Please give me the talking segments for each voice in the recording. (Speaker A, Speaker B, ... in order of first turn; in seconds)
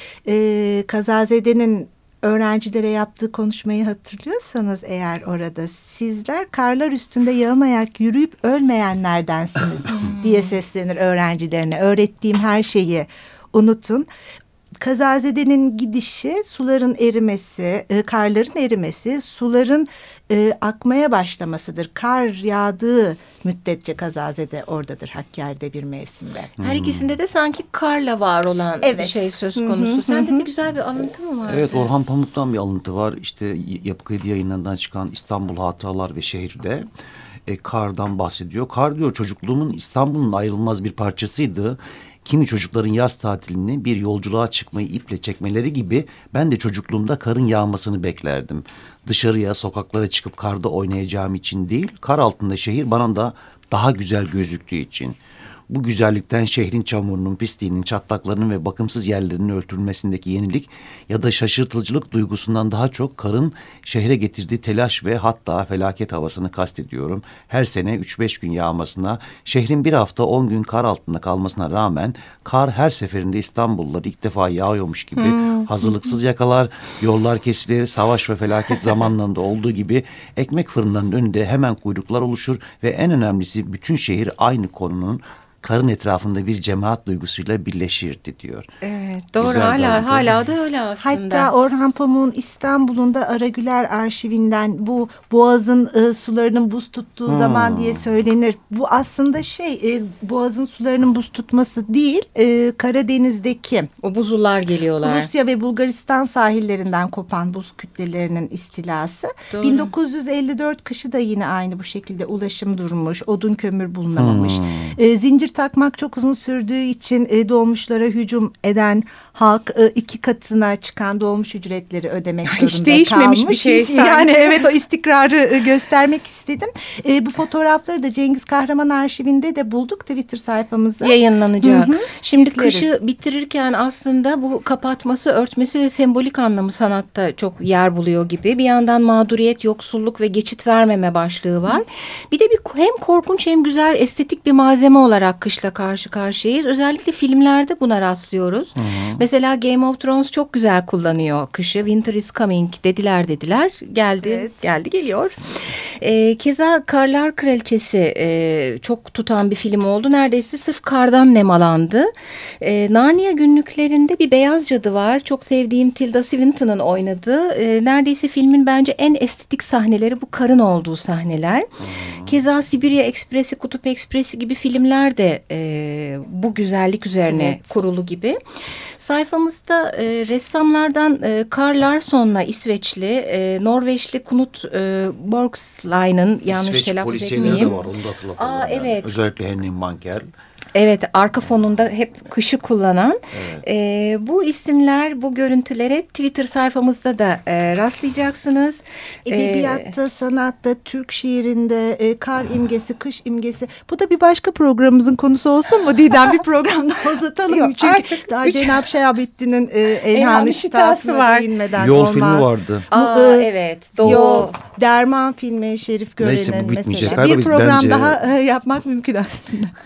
Speaker A: 0.2-14.1, 14.8-26.5, 28.8-30.4, 91.0-103.9, 105.0-132.9, 154.2-154.7, 177.3-177.8, 187.3-187.8, 199.2-213.5, 214.0-219.7
Speaker B: 9.9-10.5, 26.6-31.9, 75.2-75.7, 88.8-91.5, 104.0-105.3, 109.5-109.9, 122.4-124.7, 131.0-155.3, 156.0-162.1, 162.6-171.7, 172.2-178.4, 179.0-187.8, 188.4-189.2, 190.7-199.9, 207.5-208.8, 210.1-211.5, 212.9-214.6
Speaker C: 26.6-27.2, 31.5-36.9, 37.5-55.2, 55.7-88.7, 89.4-90.4, 97.3-98.1, 114.2-115.0, 148.8-149.2, 171.8-172.4, 186.5-190.3, 193.3-193.6, 211.8-212.9, 216.2-218.2